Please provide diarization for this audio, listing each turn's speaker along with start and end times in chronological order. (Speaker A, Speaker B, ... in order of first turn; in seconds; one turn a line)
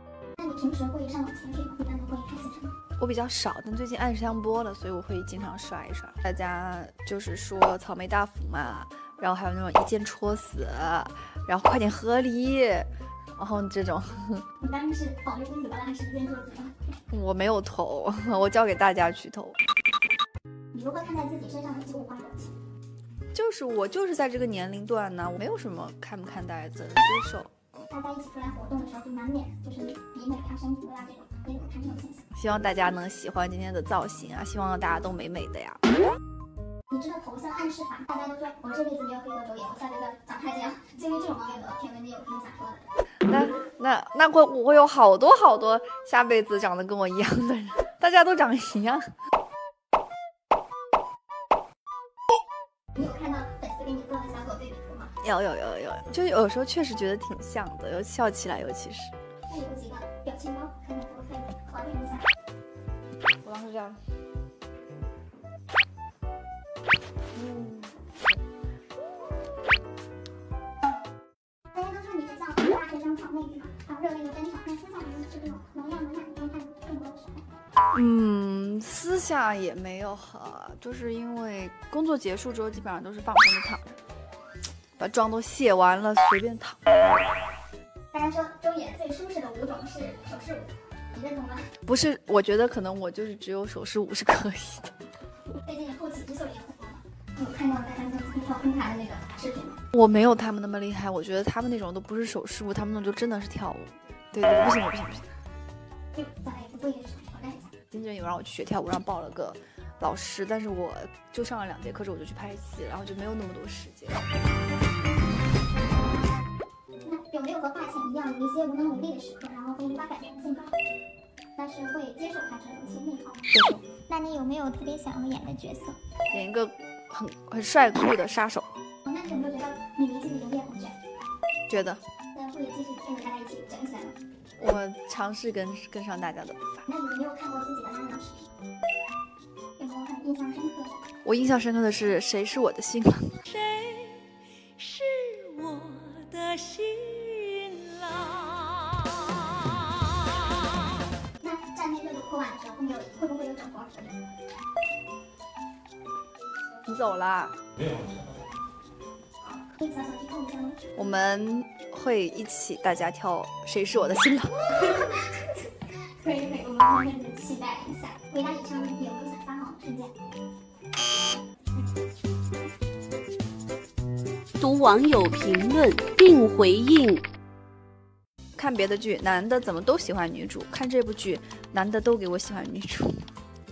Speaker A: 0.4-2.8
Speaker B: 3.0-14.4
Speaker A: 14.6-17.0
Speaker B: 17.1-19.6
Speaker A: 20.7-22.5
Speaker B: 23.3-27.8
Speaker A: 27.9-32.3
Speaker B: 32.4-35.8
Speaker A: 36.9-42.9
Speaker B: 43.3-49.1
Speaker A: 52.9-55.1
Speaker B: 55.2-59.1
Speaker A: 59.5-62.3
Speaker B: 63.4-64.0
Speaker B: 67.3-67.9
Speaker A: 71.7-77.6
Speaker B: 77.9-83.9
Speaker B: 85.0-86.8
Speaker A: 88.1-91.7
Speaker B: 91.8-94.9
Speaker A: 95.6-99.8
Speaker B: 99.9-105.2
Speaker A: 106.1-107.7
Speaker B: 107.9-114.2
Speaker A: 117.0-120.7
Speaker A: 121.5-126.0
Speaker B: 123.5-123.8
Speaker B: 126.3-128.7
Speaker A: 129.0-130.9
Speaker B: 131.7-132.0
Speaker A: 132.3-134.2
Speaker B: 134.6-136.8
Speaker A: 136.9-138.5
Speaker A: 139.8-141.0
Speaker B: 141.2-143.4
Speaker C: 143.5-149.8
Speaker A: 151.4-154.2
Speaker B: 156.8-157.6
Speaker A: 159.8-160.9
Speaker B: 160.9-164.7
Speaker A: 164.9-170.1
Speaker C: 174.6-177.2
Speaker B: 178.6-183.2